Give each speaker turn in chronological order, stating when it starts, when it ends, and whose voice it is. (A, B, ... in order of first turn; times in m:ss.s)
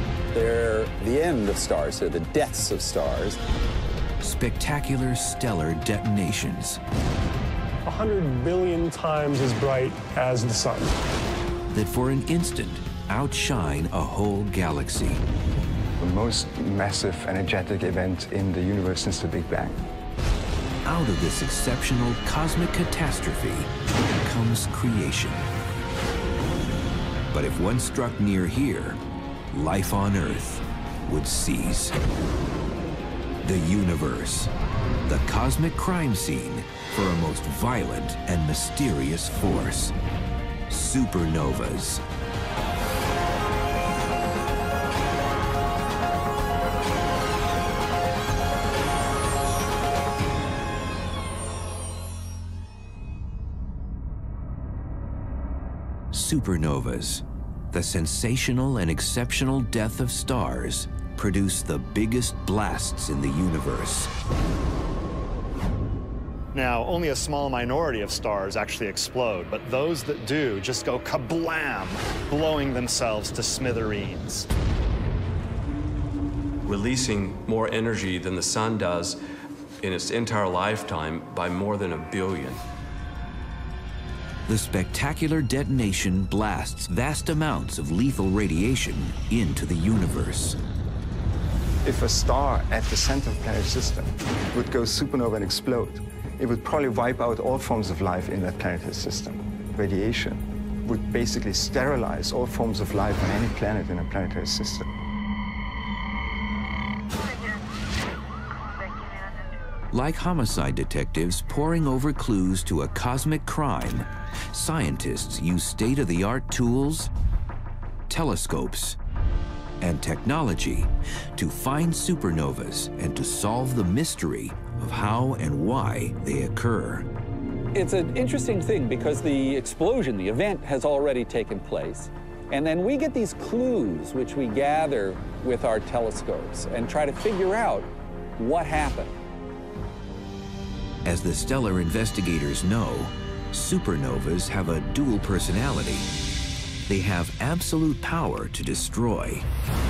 0:00.3-0:03.4 A
0:04.2-0:06.8 B
0:07.8-0:11.0 C
0:11.7-0:15.2 B
0:16.0-0:19.8 D
0:20.8-0:25.4 B
0:27.3-0:29.0 B
0:29.5-0:32.0 B
0:33.4-0:34.5 B
0:35.0-0:39.9 B
0:40.7-0:42.0 B
0:56.1-1:04.1 B
1:06.5-1:14.5 E
1:16.6-1:19.2 F
1:19.8-1:22.6 F
1:24.5-1:30.6 B
1:31.8-1:44.9 D
1:49.9-1:57.1 B
1:58.1-1:59.0 B
1:59.8-2:07.1 B
2:07.7-2:19.1 A
2:21.0-2:26.1 B
2:26.9-2:29.4 B